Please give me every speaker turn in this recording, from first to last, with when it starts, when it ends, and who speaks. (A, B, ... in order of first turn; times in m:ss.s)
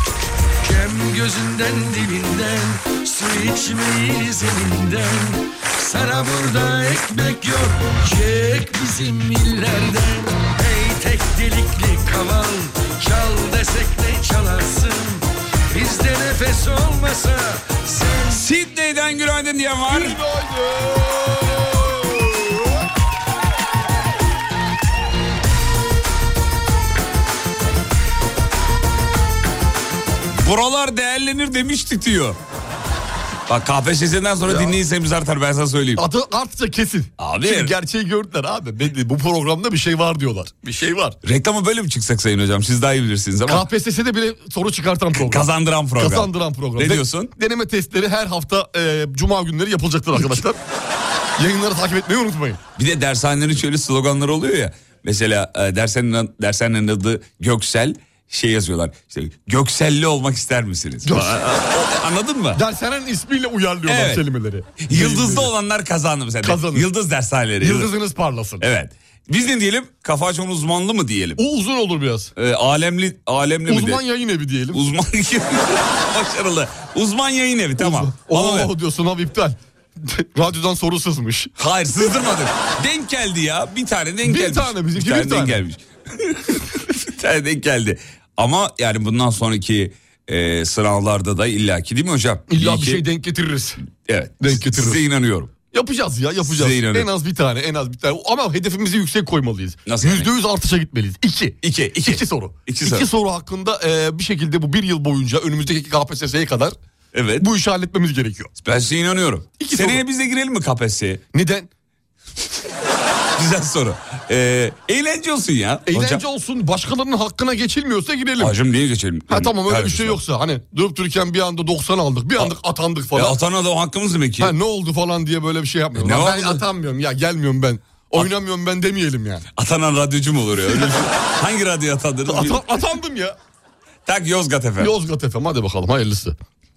0:00.6-0:18.4 A
0:18.3-0:20.2 B
0:19.9-0:22.7 C
0:30.3-0:32.4 B
0:33.5-0:36.0 B
0:34.4-0:34.8 C
0:36.0-0:41.2 C
0:37.2-0:37.7 B
0:41.2-0:43.7 B
0:43.5-0:50.6 C
0:45.1-0:47.3 B
0:51.4-0:52.6 C
0:52.8-1:02.6 B
1:01.0-1:01.4 C
1:02.5-1:05.5 C
1:03.8-1:04.2 B
1:04.8-1:07.9 B
1:06.4-1:06.8 C
1:07.6-1:08.6 C
1:08.6-1:11.4 B
1:11.4-1:12.3 C
1:12.4-1:14.0 B
1:13.7-1:14.8 C
1:14.7-1:18.7 B
1:17.8-1:21.5 C
1:21.6-1:33.0 B
1:24.2-1:25.6 C
1:32.5-1:33.8 C
1:34.0-1:35.5 B
1:34.4-1:35.0 C
1:35.7-1:46.8 C
1:36.5-1:37.1 B
1:39.8-1:40.3 B
1:41.6-1:43.1 B
1:47.1-1:47.5 B
1:47.4-1:48.5 C
1:48.6-1:51.2 B
1:49.6-1:50.0 C
1:51.3-1:51.7 C
1:53.3-1:56.2 B
1:55.9-1:58.5 C
1:58.4-2:00.2 B
1:59.3-2:03.4 C
2:03.1-2:04.6 B
2:04.4-2:09.4 C
2:05.9-2:06.6 B
2:09.5-2:12.6 B
2:12.3-2:13.4 C
2:14.0-2:14.9 B
2:14.8-2:16.4 C